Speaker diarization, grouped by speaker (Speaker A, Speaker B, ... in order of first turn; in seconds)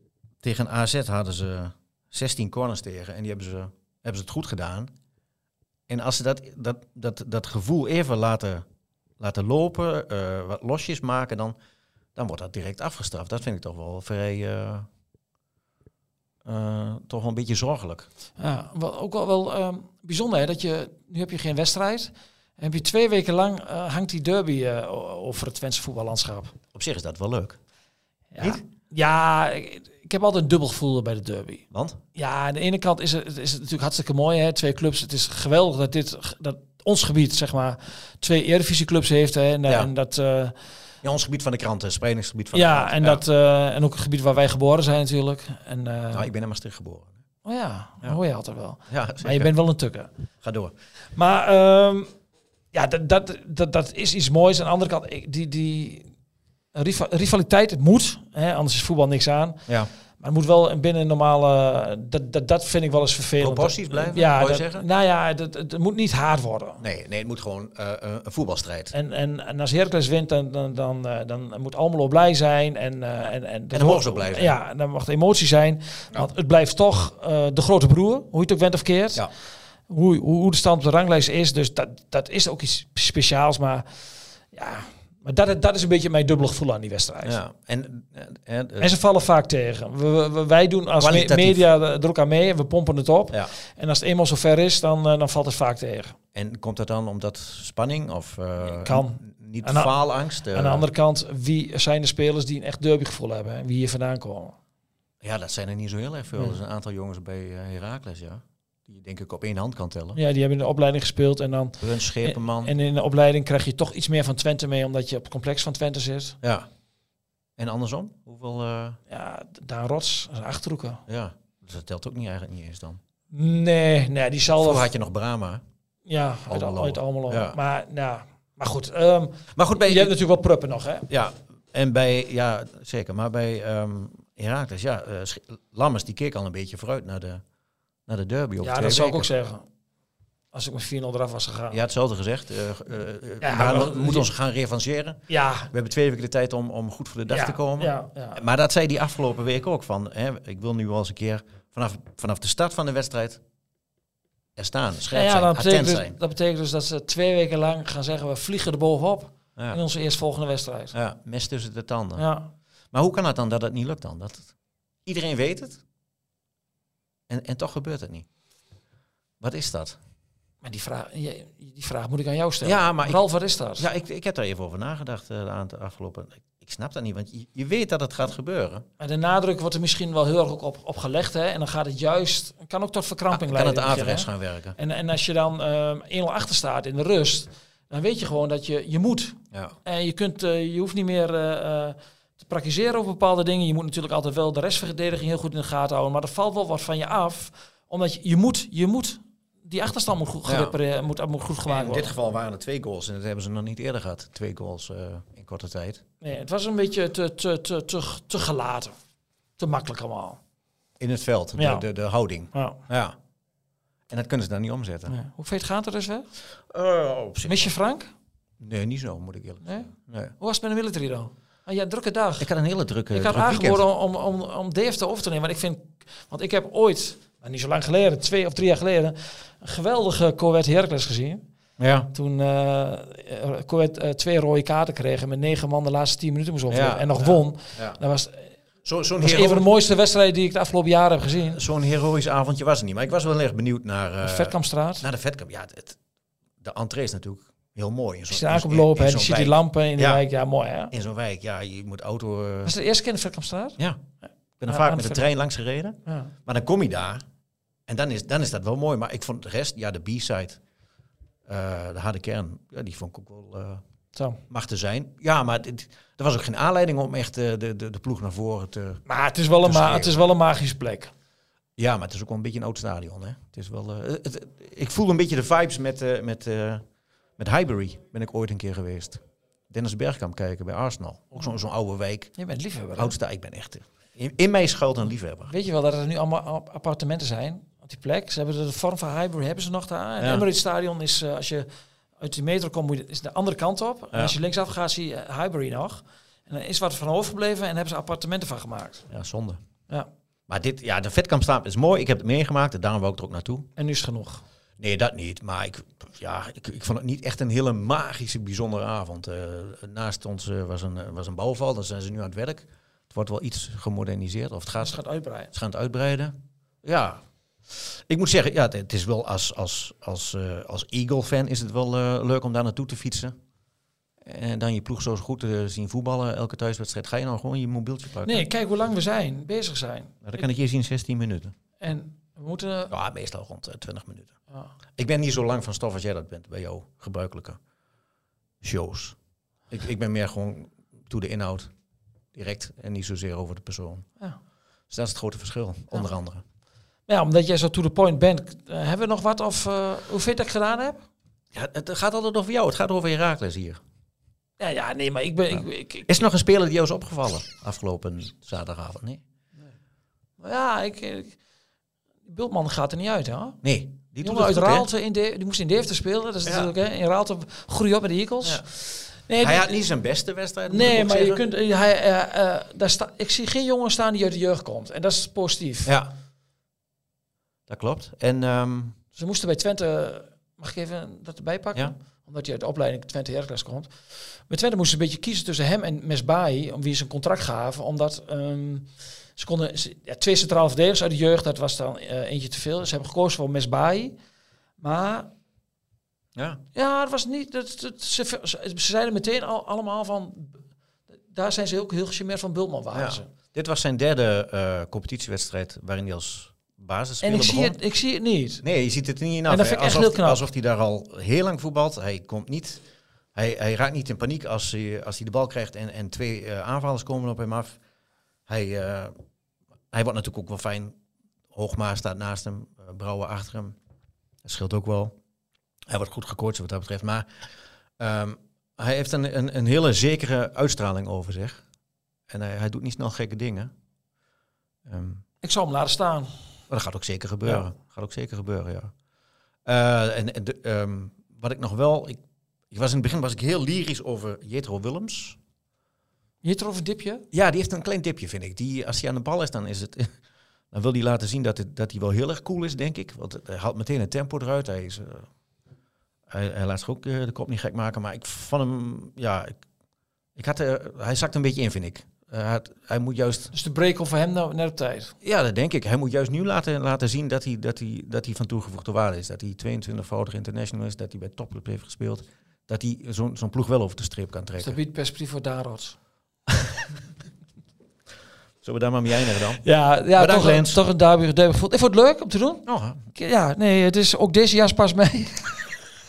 Speaker A: 0.4-4.9, 5.9-8.7, 9.2-11.6, 12.2-14.9, 16.4-18.1, 26.7-27.6, 31.7-32.0, 41.0-43.2, 46.1-47.1, 48.9-49.5, 50.4-50.7, 63.4-64.9, 66.8-68.9, 73.7-74.5, 87.2-89.0, 91.0-91.6, 96.3-100.9, 105.2-110.2, 111.8-112.7, 116.4-116.7, 117.6-119.0, 121.1-123.0, 124.5-125.6, 126.5-127.6, 129.6-130.2, 131.1-137.4, 138.1-139.3, 141.7-145.2, 145.7-153.4, 154.6-156.2, 160.9-162.2, 162.9-164.5, 165.1-165.8, 167.3-168.3, 169.4-170.0, 172.6-173.2, 173.8-178.8, 183.3-184.8, 200.4-200.8, 201.7-206.0, 211.0-213.2, 214.1-215.2, 216.7-217.7, 218.6-220.3, 222.4-223.8, 231.8-232.1, 236.7-238.0, 238.8-239.7, 241.5-246.0, 246.6-250.2, 250.9-252.7, 254.6-257.2, 257.9-260.6, 261.5-263.8, 264.5-269.0, 269.6-270.2, 271.8-276.8, 277.4-282.3, 283.0-285.5, 290.2-290.5, 299.1-299.6, 300.5-303.7, 304.8-315.0, 315.5-323.3, 324.2-328.5, 330.2-331.5, 332.9-334.3, 335.0-337.6, 338.6-339.2, 339.7-341.7, 342.3-344.1, 344.9-346.4, 351.5-353.8, 356.1-359.2, 363.6-364.9, 366.4-366.7, 369.4-371.4, 375.9-376.1, 377.7-379.0, 396.4-396.6, 402.9-407.8, 408.6-412.8, 413.4-417.8, 418.5-419.1, 419.9-420.9, 421.5-423.8, 424.4-425.1, 425.9-427.3, 428.0-431.6, 432.3-433.7, 434.9-435.2, 436.7-438.9, 439.7-442.2, 442.7-445.4, 447.3-450.1, 450.7-455.3, 456.3-459.6, 460.4-463.5, 465.2-474.8, 478.6-479.6, 480.2-480.8, 482.7-483.1
Speaker B: 18.4-26.6, 28.3-31.6, 32.2-40.6, 42.5-46.3, 47.5-50.1, 51.2-52.1, 52.7-56.1, 56.8-59.6, 60.2-66.8, 68.9-79.3, 79.9-84.0, 84.5-87.4, 88.8-96.2, 98.7-100.0, 100.5-104.6, 110.2-116.4, 119.1-121.0, 123.3-124.9, 126.1-131.1, 138.6-139.7, 140.5-141.8, 143.4-144.3, 145.3-145.7, 147.3-148.4, 155.1-160.9, 162.2-162.5, 170.6-173.9, 179.0-202.2, 206.2-208.9, 209.6-210.4, 211.6-211.8, 212.5-212.8, 215.1-216.3, 217.4-218.1, 219.7-222.5, 223.1-231.4, 232.1-238.5, 239.2-241.6, 244.2-245.1, 248.3-250.9, 252.7-253.8, 254.7-255.3, 256.1-256.3, 264.1-264.4, 269.1-271.1, 282.4-283.1, 285.5-291.7, 292.2-299.1, 303.8-304.4, 314.8-315.5, 328.2-330.2, 331.8-332.9, 347.1-351.1, 354.6-356.1, 360.4-361.4, 362.3-363.6, 364.2-369.8, 370.7-375.9, 379.2-383.9, 384.5-394.1, 394.8-395.3, 396.7-400.6, 401.3-403.3, 407.2-408.6, 409.5-410.5, 435.4-436.3, 446.4-447.3, 463.5-465.1, 474.6-475.9, 479.6-485.8